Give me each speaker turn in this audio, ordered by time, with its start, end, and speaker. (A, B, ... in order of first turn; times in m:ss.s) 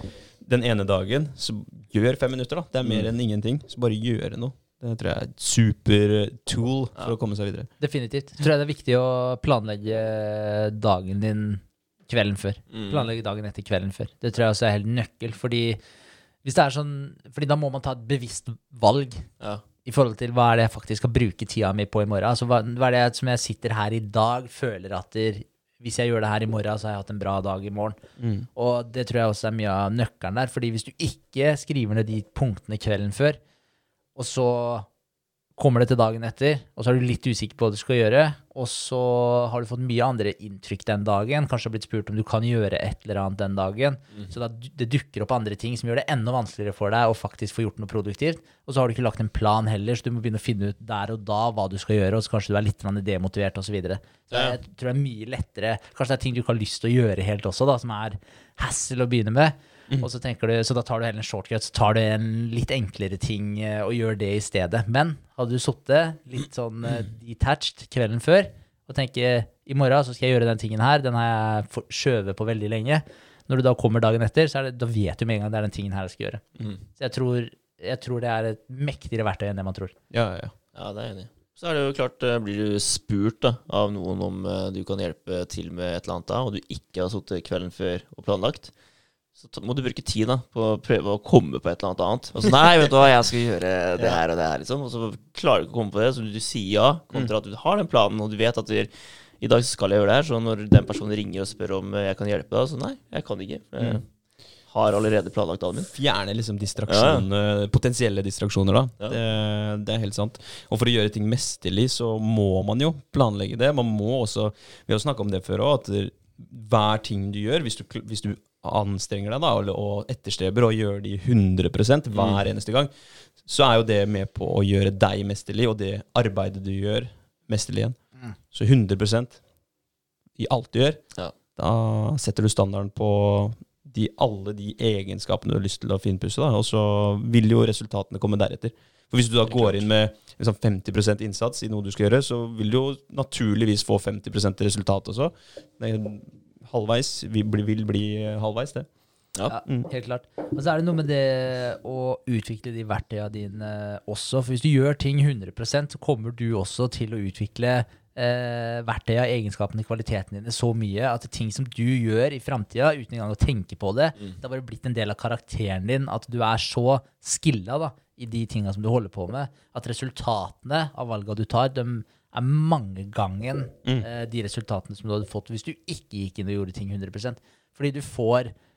0:00.4-0:07.7 A
0:07.8-0:15.8 B
0:12.7-0:13.1 C
0:16.4-0:19.3 B
0:19.8-0:28.0 B
0:28.2-0:28.5 A
0:28.5-0:33.4 B
0:34.2-0:34.9 B
0:35.6-1:19.9 B
0:54.3-0:54.6 C
1:20.1-1:20.5 A
1:20.7-1:28.7 C
1:29.4-1:44.0 C
1:44.7-1:45.9 C
1:45.9-2:02.9 A
1:46.9-1:47.2 C
2:02.1-2:02.4 C
2:03.4-2:08.0 A
2:08.5-2:09.4 A
2:10.4-2:11.0 A
2:11.6-2:28.9 A
2:29.5-2:58.5 B